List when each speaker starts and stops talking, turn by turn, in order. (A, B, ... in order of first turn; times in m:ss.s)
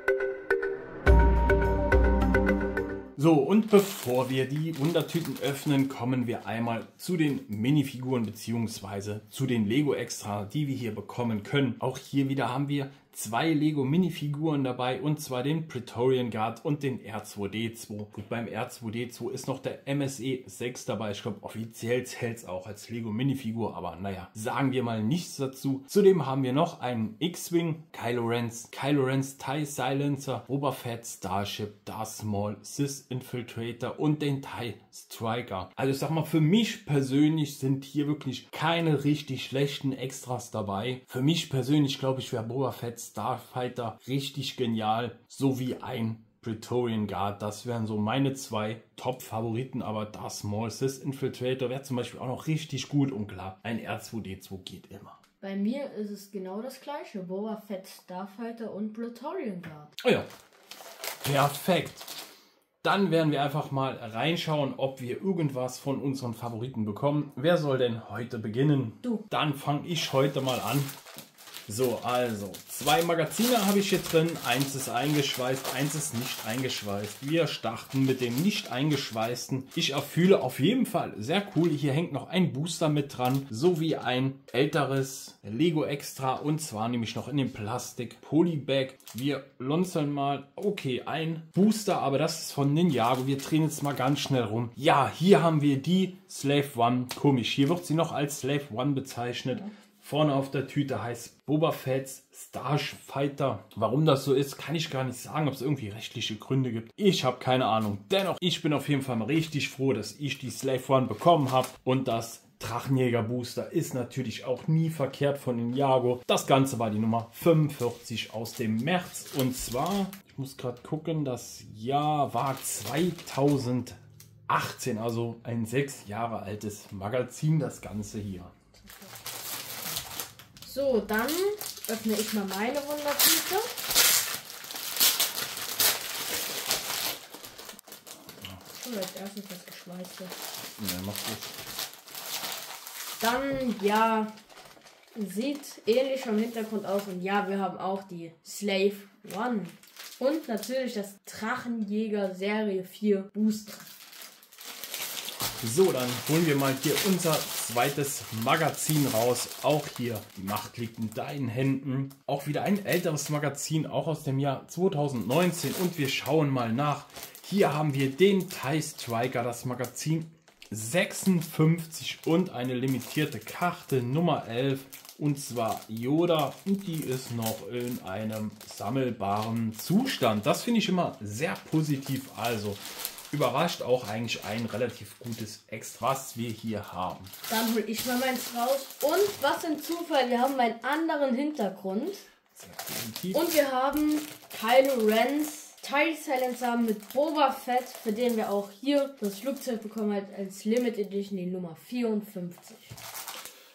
0:03.2-0:55.2 A
0:55.4-0:59.9 B
1:00.0-1:00.3 A
1:01.2-1:02.1 A
1:02.8-1:10.9 A
1:11.7-2:08.5 A
2:10.6-2:13.7 B
2:18.7-2:20.3 B
2:20.8-2:21.5 A
2:23.2-2:24.3 B
2:25.1-2:33.9 B
2:35.6-3:07.3 A
3:07.5-3:12.3 B
3:12.5-3:13.5 A
3:13.3-3:23.0 B